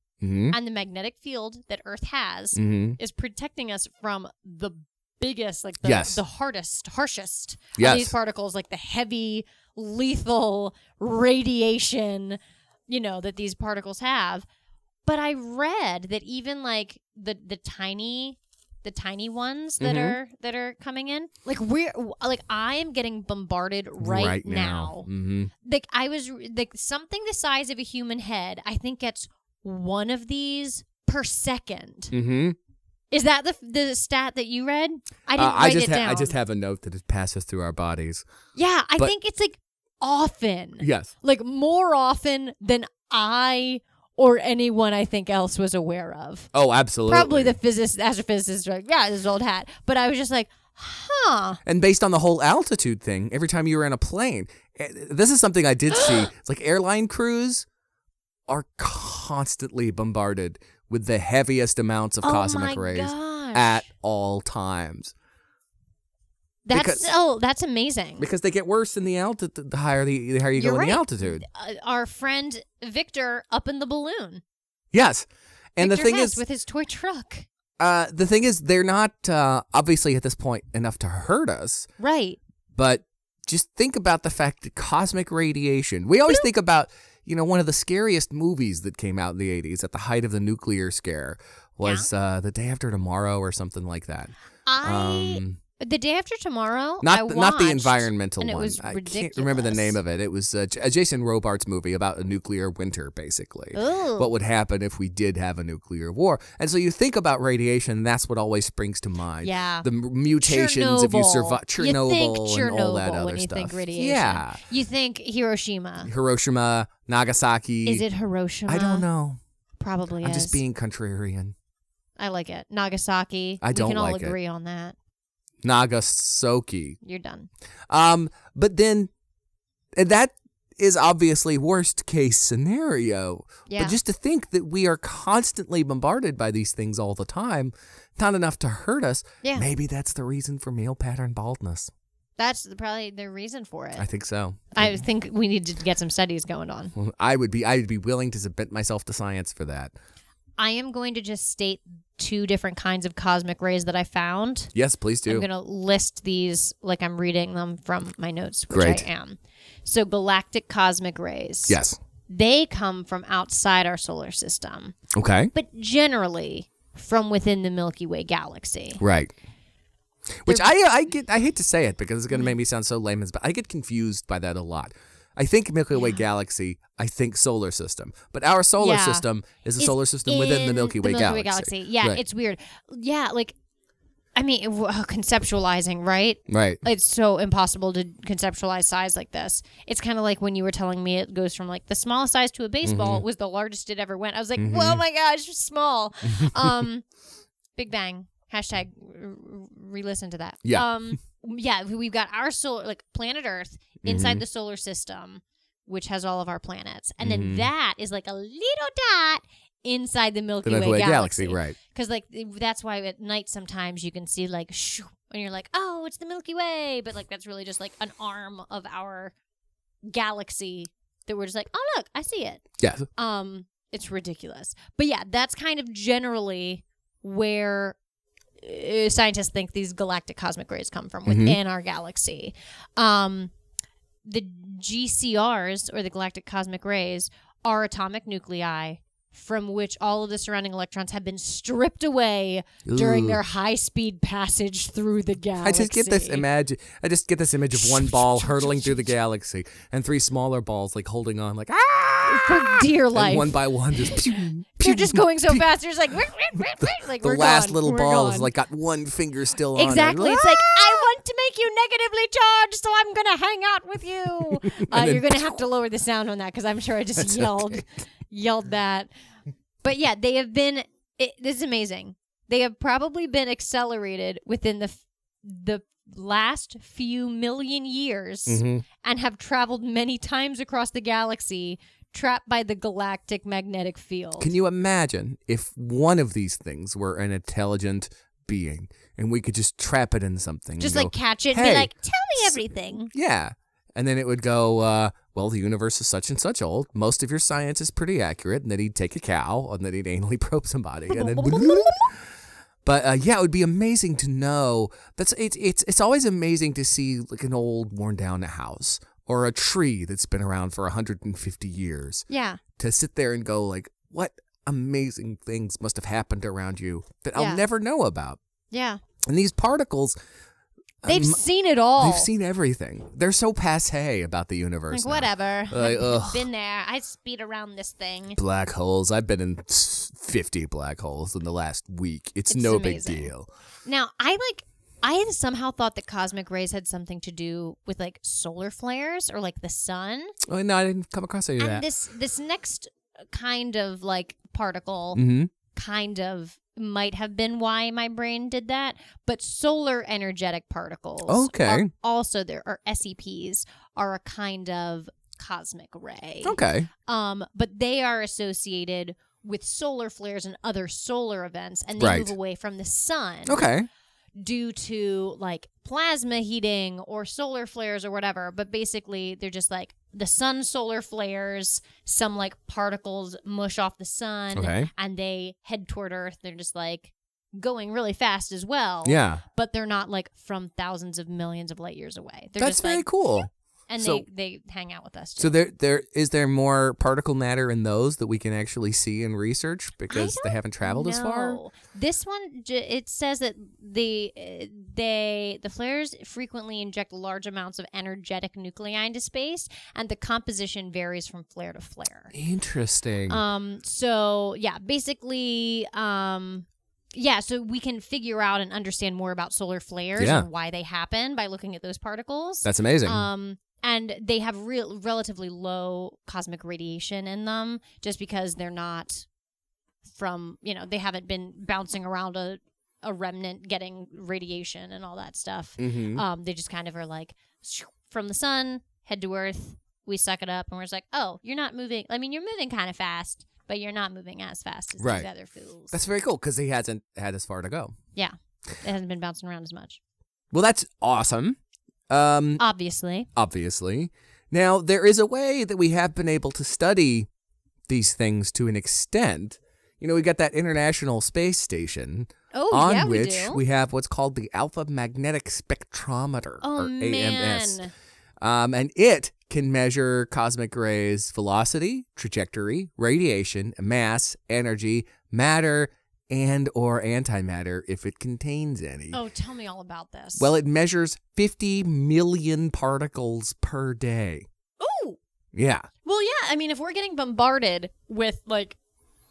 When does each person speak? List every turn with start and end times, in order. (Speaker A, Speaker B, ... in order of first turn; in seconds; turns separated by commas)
Speaker A: 0.2-0.6, Speaker B: 0.5-14.4, Speaker A: 2.5-3.0, Speaker A: 5.8-6.2, Speaker A: 7.8-8.1, Speaker B: 15.1-25.1, Speaker A: 19.8-20.2, Speaker A: 24.0-25.5, Speaker B: 25.6-32.1, Speaker A: 32.1-32.6, Speaker B: 33.1-36.4, Speaker A: 35.3-38.2, Speaker B: 38.5-46.5, Speaker A: 40.8-41.1, Speaker A: 46.5-47.5, Speaker B: 47.1-51.6, Speaker A: 51.6-57.6, Speaker B: 55.9-56.2, Speaker A: 58.5-65.1, Speaker B: 62.2-63.9, Speaker B: 66.6-68.3, Speaker A: 66.7-67.1, Speaker A: 68.2-71.5, Speaker B: 70.5-74.4, Speaker A: 74.9-76.4, Speaker B: 75.8-77.5, Speaker A: 77.8-81.9, Speaker B: 82.0-82.4, Speaker A: 82.7-95.6, Speaker B: 91.8-92.1, Speaker B: 94.7-100.0, Speaker A: 97.0-114.6, Speaker B: 103.7-104.3, Speaker B: 109.4-109.9, Speaker B: 110.4-116.1, Speaker A: 116.0-118.0, Speaker B: 117.8-119.0, Speaker A: 118.7-119.4, Speaker B: 119.8-120.6, Speaker A: 120.2-121.5, Speaker B: 122.2-124.9, Speaker A: 123.6-124.3, Speaker A: 125.6-127.0, Speaker B: 127.0-127.5, Speaker A: 127.9-129.1, Speaker A: 129.9-141.9, Speaker B: 133.7-133.9, Speaker B: 142.4-144.1, Speaker A: 144.0-145.0, Speaker B: 144.7-146.9, Speaker A: 146.9-149.9, Speaker B: 150.6-154.7, Speaker A: 154.7-155.4, Speaker B: 155.2-164.9, Speaker A: 158.7-159.0, Speaker A: 161.7-162.0, Speaker A: 165.1-165.5, Speaker B: 165.5-169.0, Speaker A: 169.0-169.3, Speaker A: 170.4-182.2, Speaker B: 175.9-176.2, Speaker B: 178.8-179.2, Speaker B: 179.8-183.5, Speaker B: 184.3-197.0, Speaker A: 186.5-186.8, Speaker A: 192.8-193.2, Speaker A: 194.6-195.0, Speaker A: 196.3-196.8, Speaker B: 197.8-219.3, Speaker A: 200.6-201.2, Speaker A: 204.0-204.4, Speaker A: 207.2-207.7, Speaker A: 210.6-211.8, Speaker B: 220.0-222.6, Speaker A: 222.8-223.1, Speaker B: 223.2-227.9, Speaker B: 228.6-233.5, Speaker A: 231.2-231.6, Speaker B: 234.2-246.4, Speaker A: 242.8-243.4, Speaker A: 245.6-255.7, Speaker B: 247.7-249.1, Speaker B: 252.3-258.5, Speaker A: 256.5-261.0, Speaker B: 259.8-269.1, Speaker A: 264.5-265.5, Speaker A: 267.1-267.8, Speaker B: 269.8-284.5, Speaker A: 278.5-278.8, Speaker A: 284.4-302.2, Speaker B: 290.8-293.1, Speaker B: 301.1-302.1, Speaker A: 302.8-312.2, Speaker B: 312.3-312.6, Speaker A: 312.8-318.4, Speaker B: 317.3-317.6, Speaker B: 318.7-319.0, Speaker A: 319.2-320.2, Speaker A: 321.0-321.4, Speaker B: 321.1-322.3, Speaker A: 321.9-326.5, Speaker B: 324.9-328.4, Speaker A: 328.4-333.5, Speaker B: 332.5-333.3, Speaker B: 333.8-340.4, Speaker A: 340.5-341.9, Speaker B: 341.6-363.7, Speaker A: 345.1-345.5, Speaker A: 351.3-351.9, Speaker A: 356.4-356.9, Speaker A: 362.0-362.3, Speaker A: 363.5-363.9, Speaker B: 364.4-385.5, Speaker A: 374.5-374.9, Speaker A: 379.0-379.4, Speaker A: 382.6-384.2, Speaker A: 385.4-391.6, Speaker B: 390.1-402.3, Speaker A: 402.3-403.4, Speaker B: 403.3-419.2, Speaker A: 410.2-410.5, Speaker A: 412.6-413.3, Speaker B: 420.0-435.9, Speaker A: 425.8-426.2, Speaker A: 435.0-435.3, Speaker A: 435.9-437.9, Speaker B: 438.1-440.0, Speaker A: 440.5-441.6, Speaker A: 442.1-442.6, Speaker B: 442.6-443.3, Speaker A: 443.4-447.3, Speaker A: 447.9-457.8, Speaker B: 452.5-453.6, Speaker B: 456.6-457.9, Speaker A: 458.4-469.2, Speaker B: 469.1-470.5, Speaker A: 470.4-474.5, Speaker B: 474.8-475.2, Speaker A: 475.5-475.9, Speaker B: 476.0-478.8